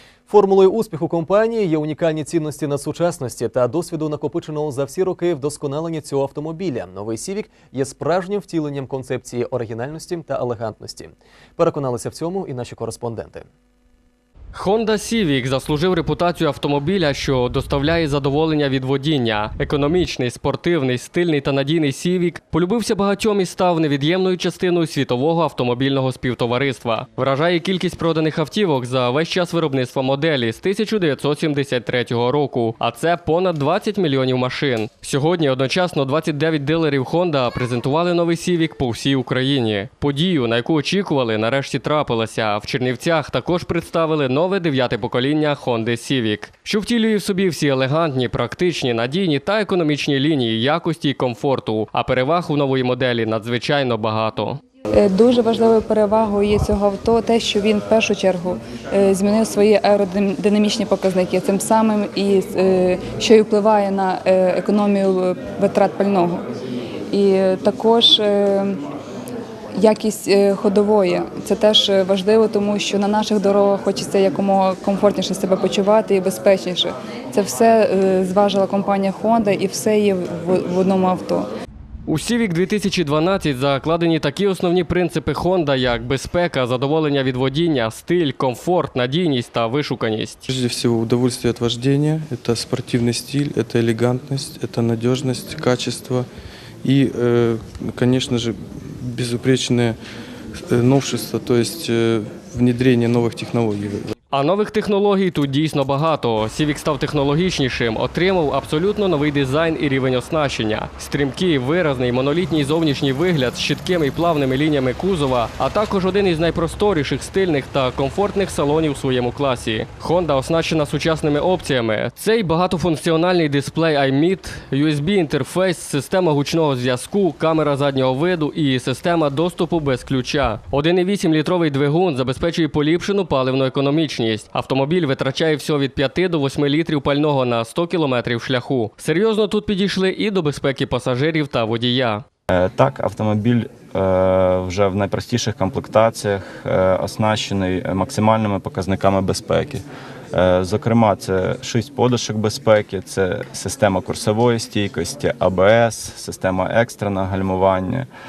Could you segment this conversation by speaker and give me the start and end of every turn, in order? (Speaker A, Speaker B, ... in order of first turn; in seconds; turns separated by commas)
Speaker A: 0.3-13.4, Speaker B: 14.5-54.6, Speaker C: 54.9-66.4, Speaker C: 67.1-68.8, Speaker C: 69.8-81.5, Speaker B: 82.1-90.4, Speaker D: 90.5-96.3, Speaker D: 96.8-100.0, Speaker D: 100.7-104.1, Speaker B: 104.3-142.2, Speaker E: 142.5-158.1